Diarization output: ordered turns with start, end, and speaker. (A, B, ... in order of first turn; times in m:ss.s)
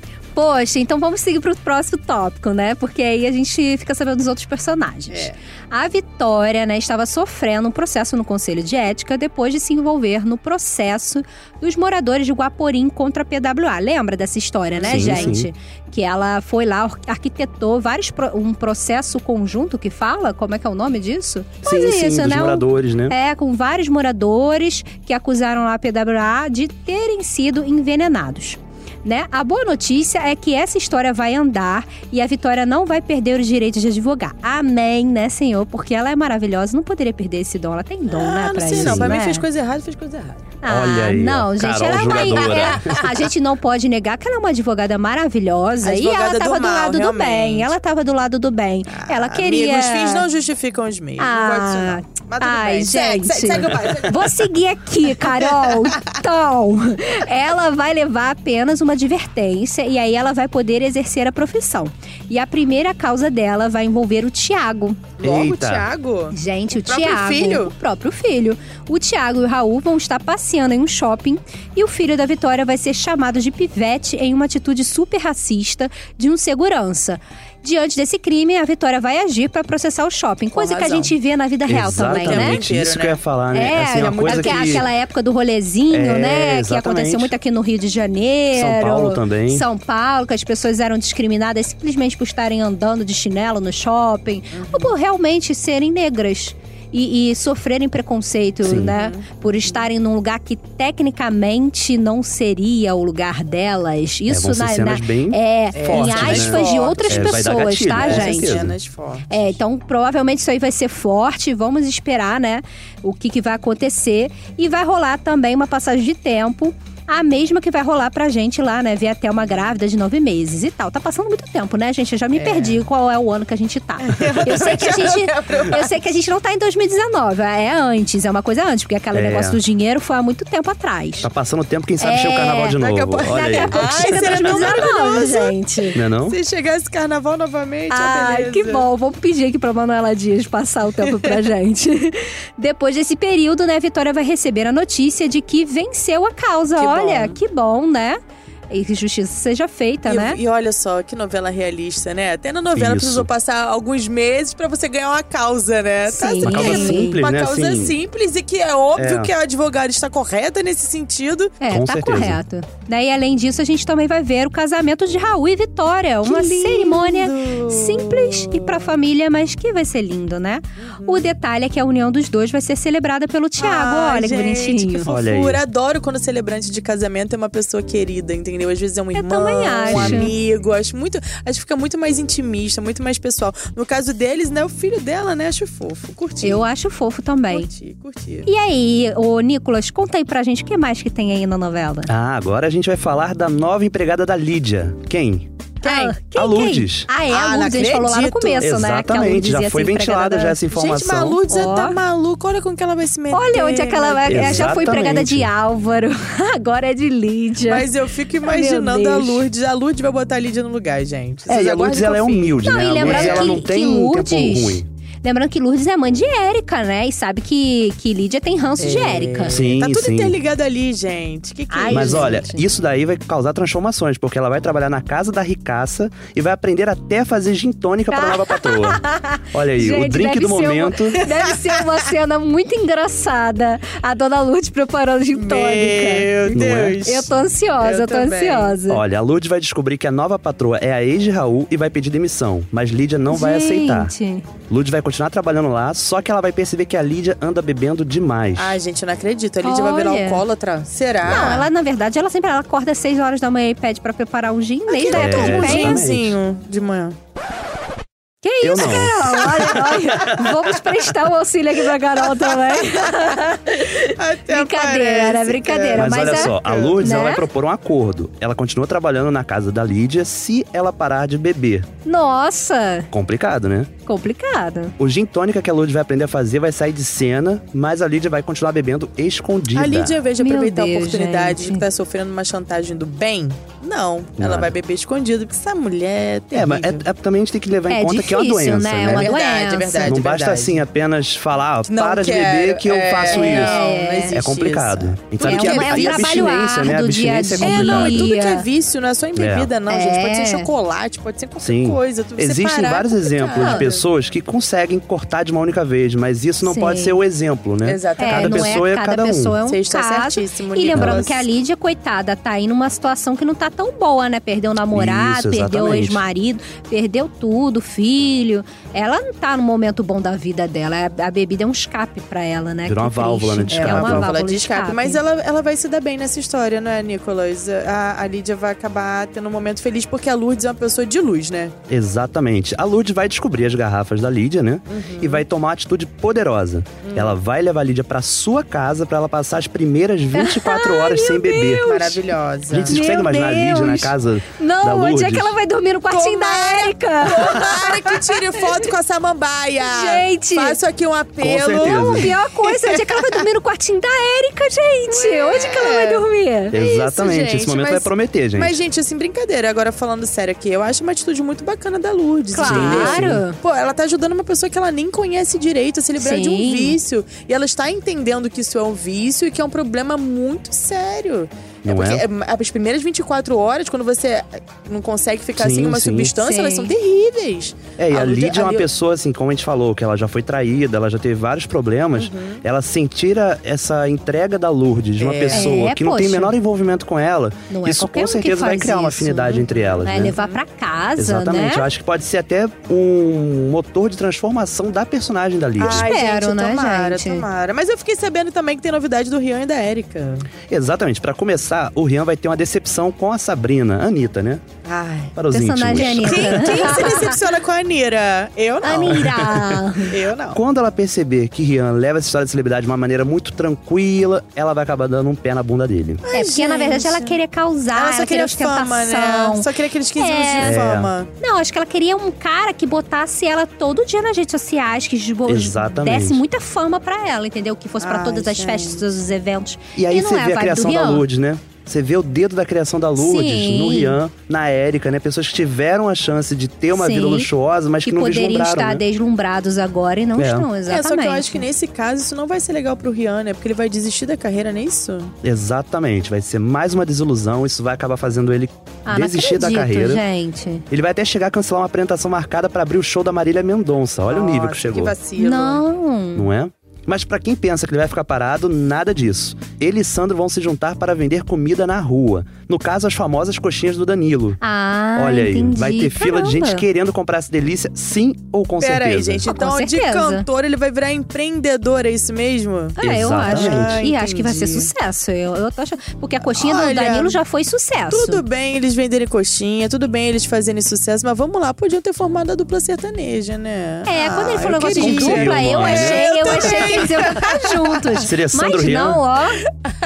0:00.4-0:39.5 A
0:05.1-0:05.4 B
0:14.8-0:15.4 B
0:14.9-0:15.5 C
0:21.6-0:23.2 C
0:38.1-0:40.6 B
0:38.7-0:39.2 C
0:40.6-0:50.3 A
0:40.7-0:43.1 C
0:42.4-0:43.2 B
0:45.8-0:47.7 B
0:48.9-0:54.5 B
0:51.2-1:05.1 A
0:55.3-0:56.1 B
1:05.2-1:07.8 B
1:05.2-1:05.9 C
1:06.3-1:22.6 A
1:20.5-1:21.1 B
1:21.7-1:24.9 C
1:22.2-1:23.2 B
1:23.5-1:48.6 A
1:24.0-1:24.9 B
1:25.9-1:27.3 C
1:28.5-1:29.7 C
1:34.5-1:34.9 B
1:38.6-1:39.0 C
1:38.9-1:39.8 B
1:44.3-1:48.7 C
1:45.7-1:49.6 B
1:49.3-2:11.3 A
2:02.4-2:02.8 B
2:04.0-2:05.9 B
2:09.1-2:09.6 C
2:11.2-2:13.8 C
2:12.0-2:16.0 A
2:12.7-2:15.6 B
2:16.0-2:16.4 C
2:16.2-2:18.9 B
2:17.9-2:28.2 A
2:26.8-2:27.4 B
2:28.7-2:30.4 A
2:30.0-2:41.6 B
2:32.8-2:33.3 C
2:36.0-2:37.2 A
2:36.4-2:38.0 C
2:39.0-2:39.3 C
2:41.6-2:55.1 A
2:41.7-2:42.4 C
2:46.2-2:48.9 B
2:50.8-2:51.3 B
2:53.6-3:06.6 B
2:55.1-2:55.6 C
2:59.1-3:00.4 A
2:59.9-3:00.3 C
3:06.4-3:07.7 A
3:07.5-3:08.5 B
3:08.5-3:12.1 A
3:12.1-3:15.5 C
3:15.8-3:20.6 A
3:15.9-3:16.2 B
3:16.4-3:17.1 C
3:17.3-3:18.7 B
3:18.6-3:21.4 C
3:20.7-3:25.0 B
3:21.4-3:22.0 A
3:23.3-3:29.5 A
3:24.3-3:25.5 C
3:27.7-3:33.6 B
3:31.5-3:34.9 C
3:32.6-3:39.6 A
3:38.8-3:42.5 B
3:39.5-3:40.4 C
3:41.7-3:42.6 A
3:41.9-3:49.0 C
3:48.1-3:59.0 A
3:49.5-3:51.2 C
3:51.2-3:52.0 B
3:55.4-3:58.8 B
3:56.5-3:57.0 C
3:58.9-4:04.1 C
4:03.3-4:04.5 A
4:04.7-4:08.8 C
4:08.6-4:11.7 B
4:09.6-4:10.5 A
4:11.2-4:11.6 C
4:11.4-4:16.0 A
4:14.9-4:17.2 B
4:15.1-4:16.4 C
4:18.4-4:27.5 A
4:18.6-4:19.3 C
4:19.3-4:19.9 B
4:22.3-4:22.8 B
4:24.1-4:27.0 B
4:26.0-4:31.9 C
4:32.0-4:33.1 A
4:33.1-4:33.9 C
4:34.0-4:35.0 A
4:35.0-4:40.2 C
4:39.7-4:47.0 B
4:40.4-4:41.8 A
4:44.4-4:44.8 C
4:46.5-4:49.3 C
4:47.9-4:50.2 A
4:49.0-4:50.8 B
4:50.0-4:53.8 C
4:51.8-4:56.6 B
4:53.3-4:54.4 A
4:54.3-4:58.3 C
4:55.5-4:58.7 A
4:57.6-5:04.0 B
4:59.4-4:59.7 C
4:59.9-5:00.7 A
5:01.6-5:09.6 C
5:03.6-5:03.9 A
5:06.6-5:07.2 A
5:07.8-5:08.8 B
5:08.2-5:25.2 A
5:09.6-5:11.5 B
5:10.9-5:11.2 C
5:14.9-5:16.2 C
5:22.8-5:24.3 C
5:23.7-5:31.7 B
5:31.9-5:41.9 C
5:34.9-5:35.4 B
5:37.0-5:37.4 B
5:40.3-5:42.2 A
5:41.8-5:43.0 B
5:42.7-5:45.6 C
5:42.9-5:49.0 A
5:46.1-5:53.3 B
5:49.8-5:50.8 A
5:51.4-5:52.4 C
5:51.8-5:56.8 A
5:55.1-6:18.9 B
5:56.7-5:58.8 C
6:02.5-6:03.6 A
6:02.6-6:03.4 C
6:06.2-6:07.0 A
6:11.8-6:12.3 C
6:15.6-6:16.4 C
6:16.4-6:16.9 A
6:18.0-6:30.4 C
6:22.2-6:22.6 B
6:25.2-6:25.8 B
6:25.5-6:26.6 A
6:27.7-6:31.9 A
6:29.7-6:30.6 B
6:31.2-6:36.1 C
6:35.8-6:40.5 B
6:36.0-6:37.5 A
6:40.7-6:44.6 C
6:44.8-6:45.4 B
6:45.4-6:46.8 C
6:45.5-6:47.4 A
6:46.0-6:49.3 B
6:48.8-6:50.2 A
6:49.1-6:49.8 C
6:50.0-6:50.6 B
6:50.5-6:56.2 C
6:56.2-6:57.4 B
6:56.3-7:00.8 A
6:57.9-7:01.3 B
7:00.6-7:01.1 C
7:01.4-7:11.3 A
7:05.5-7:06.4 C
7:08.0-7:09.1 B
7:10.0-7:19.0 C
7:13.2-7:14.2 A
7:16.9-7:17.5 A
7:18.0-7:21.7 A
7:20.4-7:20.7 C
7:20.8-7:25.3 B
7:25.4-7:30.2 C
7:29.1-7:30.8 A
7:30.9-7:35.1 C
7:34.3-7:35.8 B
7:35.4-7:36.5 A
7:36.4-7:44.6 C
7:44.6-7:46.9 A
7:45.2-7:49.5 C
7:48.8-7:54.9 B
7:49.5-7:50.5 A
7:53.0-7:58.4 A
7:53.0-7:54.0 C
7:56.4-7:57.4 B
7:58.1-8:08.3 B
8:04.0-8:09.6 A
8:04.9-8:06.2 C
8:08.2-8:09.2 C